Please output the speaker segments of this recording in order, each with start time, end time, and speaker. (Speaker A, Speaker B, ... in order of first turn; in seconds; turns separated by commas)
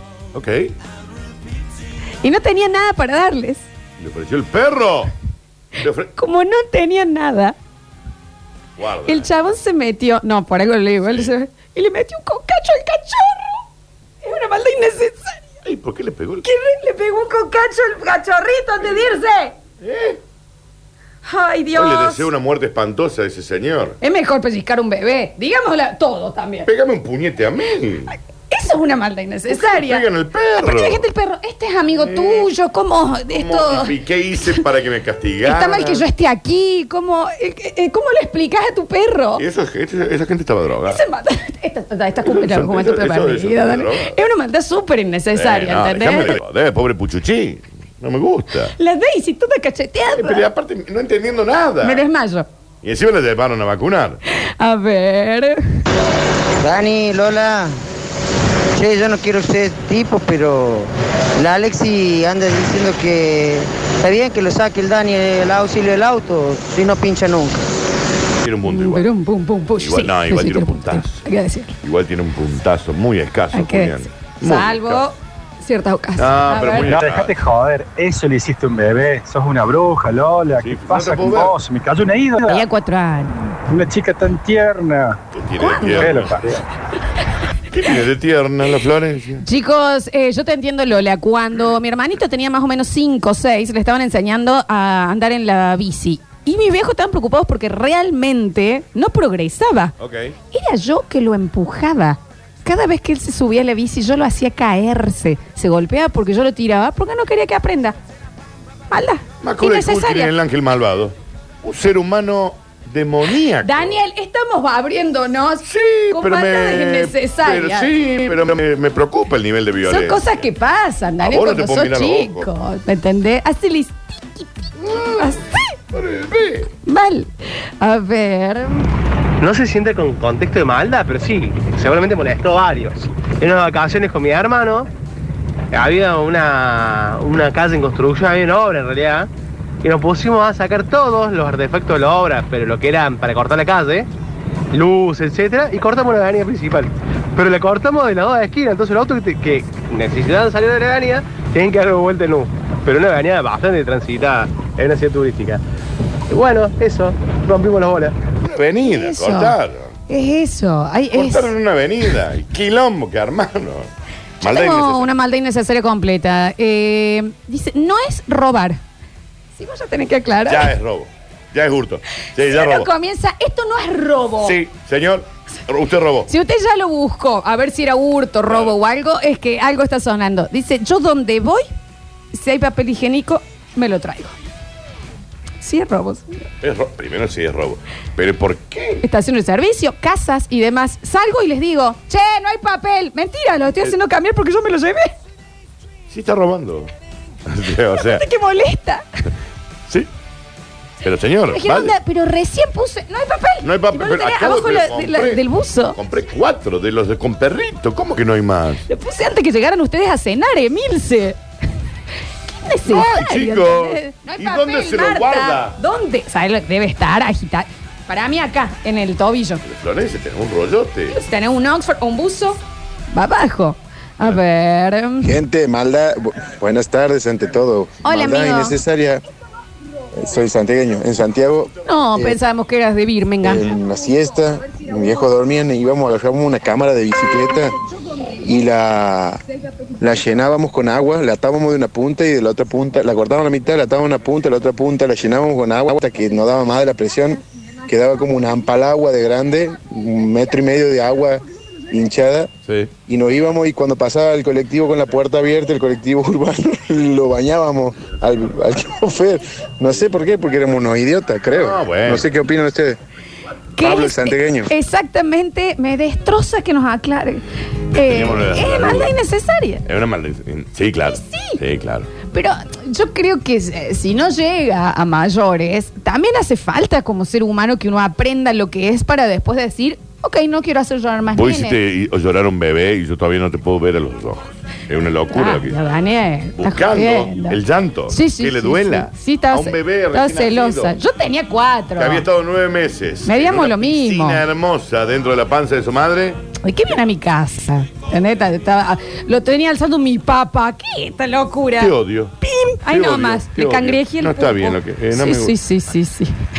Speaker A: 0.3-0.7, Speaker B: 2.2-3.6, Speaker A: 4.0-5.1, Speaker A: 5.8-6.1, Speaker B: 6.2-7.5, Speaker A: 8.8-9.3, Speaker B: 9.1-13.6, Speaker B: 14.2-15.4, Speaker A: 15.6-16.4, Speaker B: 16.4-19.5, Speaker A: 19.8-20.2, Speaker B: 21.2-22.3, Speaker A: 21.7-24.0, Speaker B: 24.0-26.7, Speaker A: 26.6-28.1, Speaker B: 28.5-30.0, Speaker A: 29.5-31.0, Speaker B: 30.6-33.9, Speaker A: 32.0-32.5, Speaker A: 33.3-36.0, Speaker B: 35.4-39.4, Speaker A: 39.4-41.0, Speaker B: 40.9-46.4, Speaker A: 42.2-44.1, Speaker A: 45.3-48.7, Speaker B: 48.8-50.4, Speaker A: 50.1-52.0, Speaker B: 51.8-52.5, Speaker A: 52.8-54.2, Speaker B: 54.6-55.6, Speaker C: 56.6-57.7, Speaker C: 58.8-67.6, Speaker A: 68.4-69.0, Speaker B: 68.7-71.7, Speaker A: 69.8-71.2, Speaker A: 71.8-75.0, Speaker B: 73.5-76.9, Speaker A: 76.2-77.3, Speaker D: 76.8-82.7, Speaker A: 80.6-81.5, Speaker B: 82.5-83.4, Speaker D: 83.7-85.2, Speaker A: 85.3-86.6, Speaker B: 85.6-86.3, Speaker D: 86.0-86.6, Speaker A: 87.7-89.4, Speaker B: 89.4-99.9, Speaker A: 100.0-100.3, Speaker B: 100.5-108.0, Speaker B: 108.9-110.3, Speaker A: 109.4-114.0, Speaker B: 113.6-118.0, Speaker A: 115.6-120.3, Speaker B: 119.8-125.7, Speaker A: 121.2-122.5, Speaker A: 125.9-126.7, Speaker B: 126.8-128.9, Speaker E: 129.4-134.9, Speaker E: 135.7-139.3, Speaker E: 139.8-144.1, Speaker E: 144.7-155.6, Speaker E: 156.3-158.1, Speaker A: 158.4-159.9, Speaker B: 158.8-159.6, Speaker B: 160.1-161.5, Speaker A: 161.1-163.9, Speaker A: 164.4-165.1, Speaker B: 164.4-168.8, Speaker B: 169.6-170.7, Speaker A: 170.5-172.9, Speaker B: 172.4-174.6, Speaker A: 174.4-176.3, Speaker B: 176.3-181.7, Speaker A: 178.5-178.7, Speaker B: 182.3-184.3, Speaker B: 185.6-186.4, Speaker A: 186.6-189.0, Speaker B: 189.0-195.1, Speaker A: 196.1-196.9, Speaker A: 197.4-198.2, Speaker B: 198.0-199.0, Speaker A: 201.0-201.9, Speaker B: 201.5-206.0, Speaker A: 203.6-205.4, Speaker A: 205.9-208.8, Speaker B: 208.9-211.4, Speaker B: 212.4-219.6, Speaker A: 212.9-215.8, Speaker A: 219.6-221.2, Speaker B: 221.1-222.6, Speaker B: 223.1-225.3, Speaker F: 225.2-229.2, Speaker B: 228.0-228.8, Speaker F: 230.2-232.4, Speaker B: 231.8-233.7, Speaker F: 233.4-237.7, Speaker F: 238.3-239.4, Speaker F: 240.0-252.5, Speaker F: 253.1-263.0, Speaker A: 261.5-262.2, Speaker B: 263.8-269.8, Speaker F: 263.8-264.7, Speaker A: 267.9-269.1, Speaker A: 269.9-272.1, Speaker B: 271.1-271.6, Speaker B: 272.3-281.8, Speaker A: 281.4-285.8, Speaker B: 285.3-287.6, Speaker A: 286.6-290.9, Speaker B: 288.1-292.2, Speaker A: 292.0-296.4, Speaker B: 293.2-294.4, Speaker B: 296.6-306.3, Speaker A: 301.8-305.5